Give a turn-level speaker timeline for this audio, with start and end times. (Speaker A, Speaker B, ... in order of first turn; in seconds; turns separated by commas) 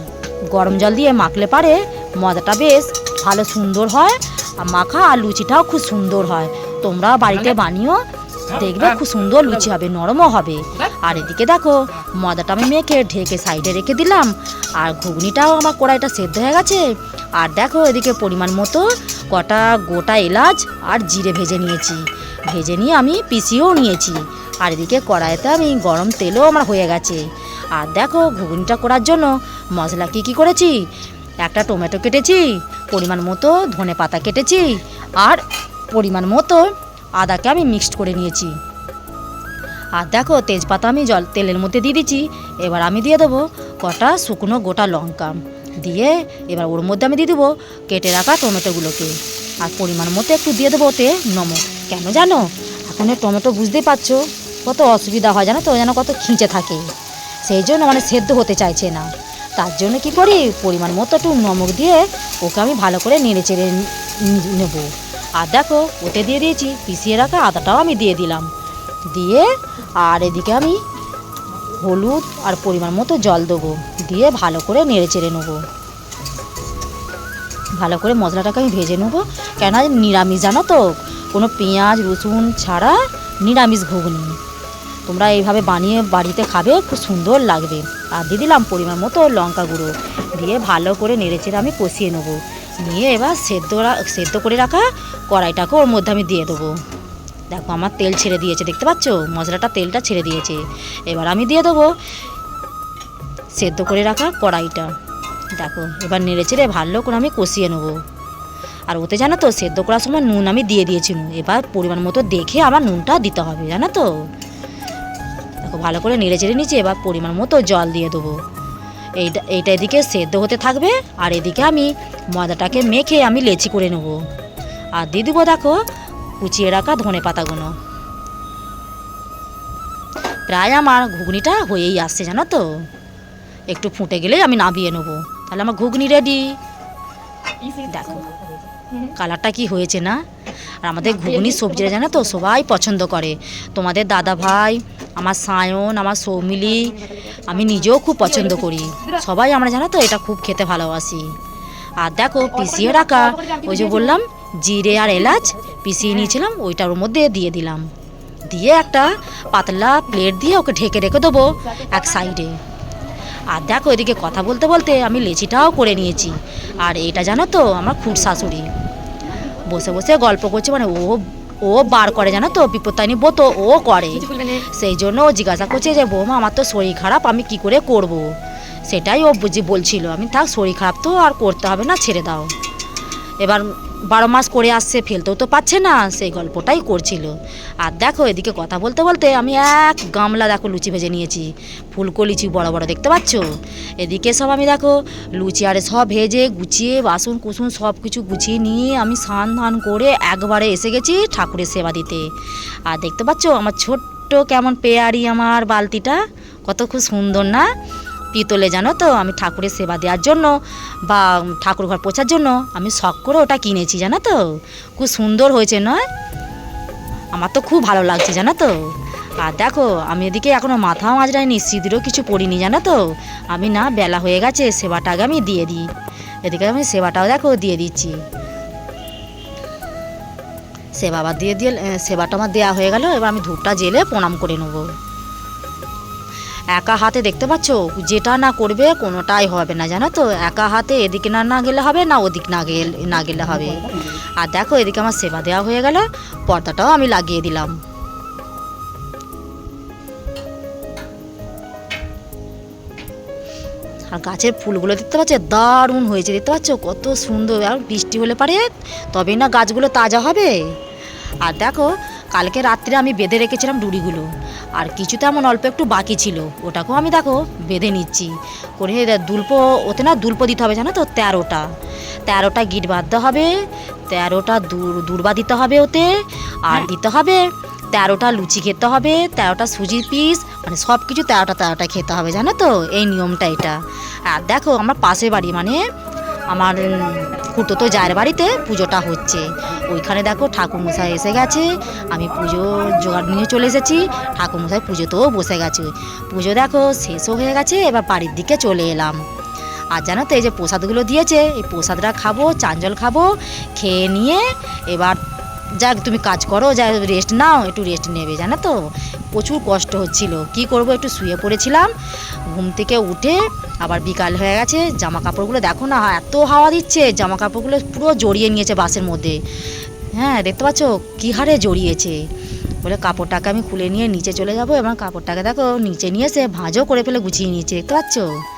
Speaker A: 0.5-30.8, Speaker A: 31.4-36.6, Speaker A: 37.2-38.5, Speaker A: 40.0-56.9, Speaker A: 57.4-68.5, Speaker A: 69.1-70.8, Speaker A: 71.7-75.6, Speaker A: 77.7-84.4, Speaker A: 85.0-96.8, Speaker A: 97.5-101.9, Speaker A: 103.5-104.9, Speaker A: 105.5-108.0, Speaker A: 108.9-114.3, Speaker A: 115.6-118.4, Speaker A: 119.2-124.2, Speaker A: 125.0-125.8, Speaker A: 126.4-127.7, Speaker A: 130.5-132.9, Speaker A: 133.7-136.6, Speaker A: 137.8-138.3, Speaker A: 139.1-140.2, Speaker A: 140.8-151.4, Speaker A: 152.0-157.9, Speaker A: 158.5-162.6, Speaker A: 163.4-168.7, Speaker A: 169.5-182.5, Speaker A: 183.4-202.3, Speaker A: 202.8-207.7, Speaker A: 208.3-216.0, Speaker A: 217.3-225.9, Speaker A: 226.4-228.2, Speaker A: 231.0-234.9, Speaker A: 236.7-247.8, Speaker A: 254.1-260.7, Speaker A: 261.4-271.7, Speaker A: 272.2-285.8, Speaker A: 286.5-299.2, Speaker A: 299.9-305.2, Speaker A: 305.8-311.9, Speaker A: 312.5-319.4, Speaker A: 320.1-322.2, Speaker A: 322.8-328.4